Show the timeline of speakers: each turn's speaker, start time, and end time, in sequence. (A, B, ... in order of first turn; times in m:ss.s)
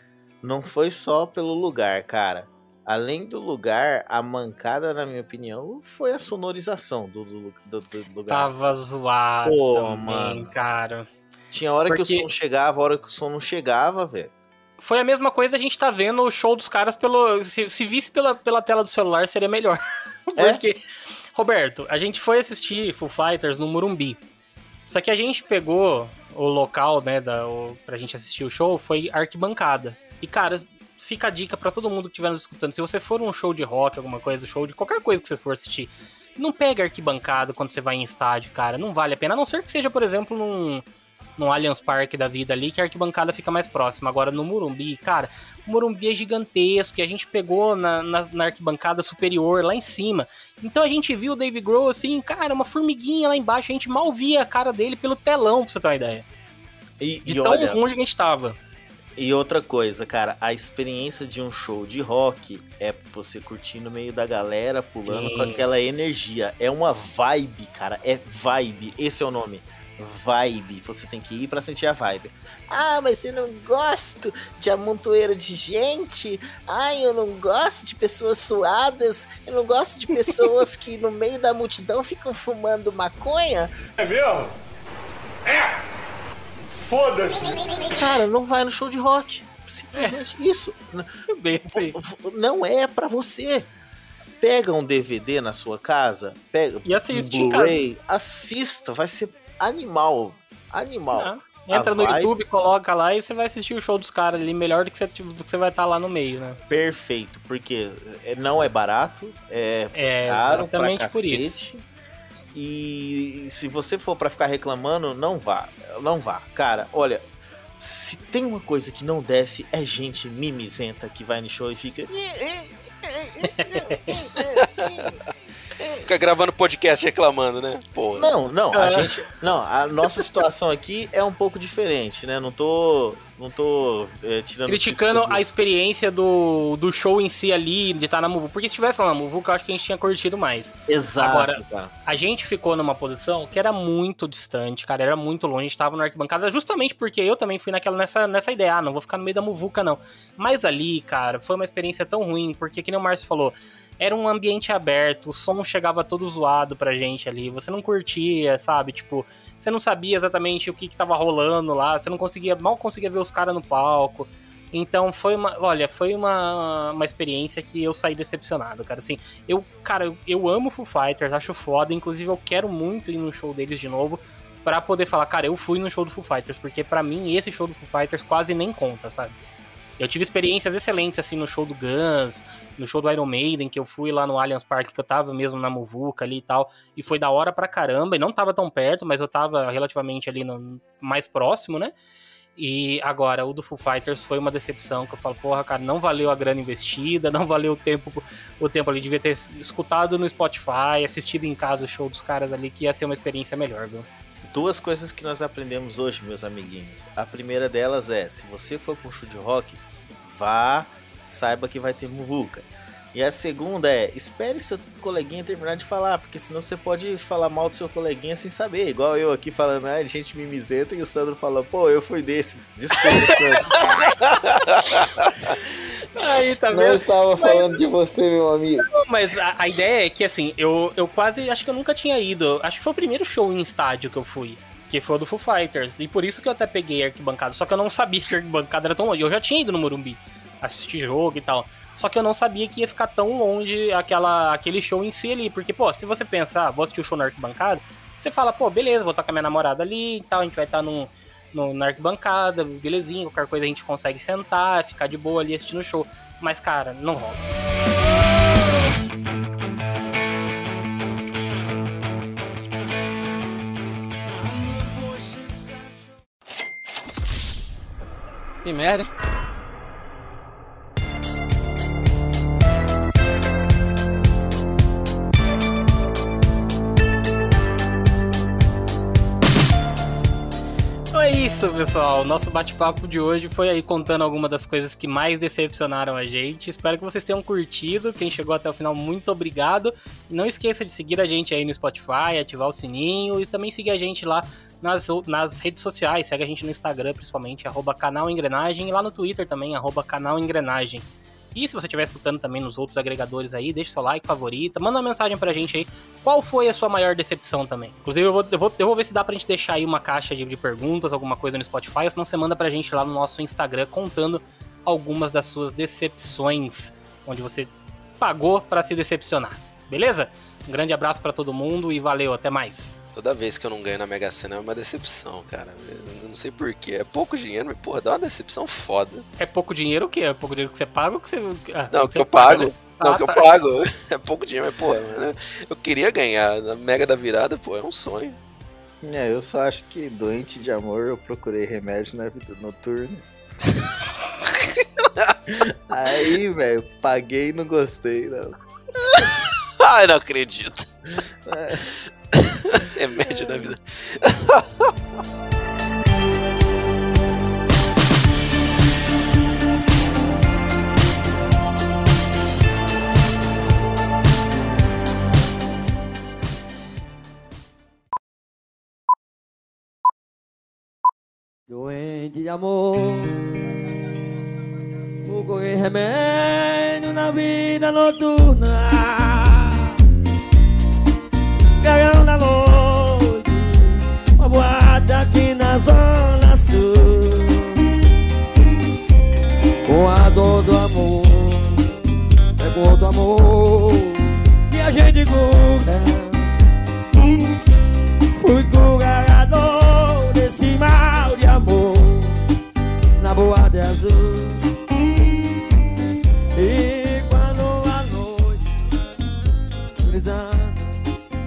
0:00.4-0:08.5 A
0:08.3-0:11.1 B
0:09.4-0:10.5 A
0:11.5-0:14.3 A
0:11.9-0:12.2 B
0:14.8-0:20.8 B
0:20.4-0:20.6 A
0:21.3-0:24.2 B
0:24.9-0:40.8 B
0:41.4-0:56.2 B
0:57.0-0:57.8 A
0:57.2-0:58.6 B
0:59.2-1:23.7 A
1:05.0-1:05.6 B
1:27.8-1:31.1 A
1:31.3-1:32.0 B
1:31.6-1:33.7 A
1:34.4-1:42.3 A
1:36.8-1:37.8 B
1:41.1-1:46.6 B
1:46.7-1:51.8 A
1:49.9-1:51.6 B
1:52.5-1:57.2 A
1:57.8-2:05.2 A
2:03.5-2:04.2 B
2:04.6-2:05.1 C
2:05.8-2:06.1 A
2:06.0-2:08.3 C
2:08.1-2:15.4 A
2:08.7-2:09.1 B
2:14.7-2:59.4 B
2:20.9-2:21.9 A
3:00.0-3:11.9 B
3:12.6-3:24.1 B
3:24.5-3:44.1 A
3:44.1-3:45.3 C
3:46.1-3:47.8 B
3:46.7-3:48.9 A
3:48.8-4:17.4 B
4:28.6-4:29.1 C
4:41.1-5:23.0 B
5:23.1-5:29.2 C
5:29.4-5:33.5 B
5:31.9-5:38.4 C
5:39.0-5:43.2 A
5:44.5-5:45.3 C
5:45.5-5:48.6 A
5:49.1-5:50.9 C
5:51.5-5:51.8 A
5:52.3-5:54.9 C
6:11.7-6:13.5 D
6:15.2-6:19.7 D
6:21.8-6:27.8 D
6:29.8-6:31.9 D
6:32.6-6:36.5 D
6:38.4-6:42.4 D
6:43.2-6:44.7 D
6:46.5-6:48.6 D
6:50.0-6:50.9 D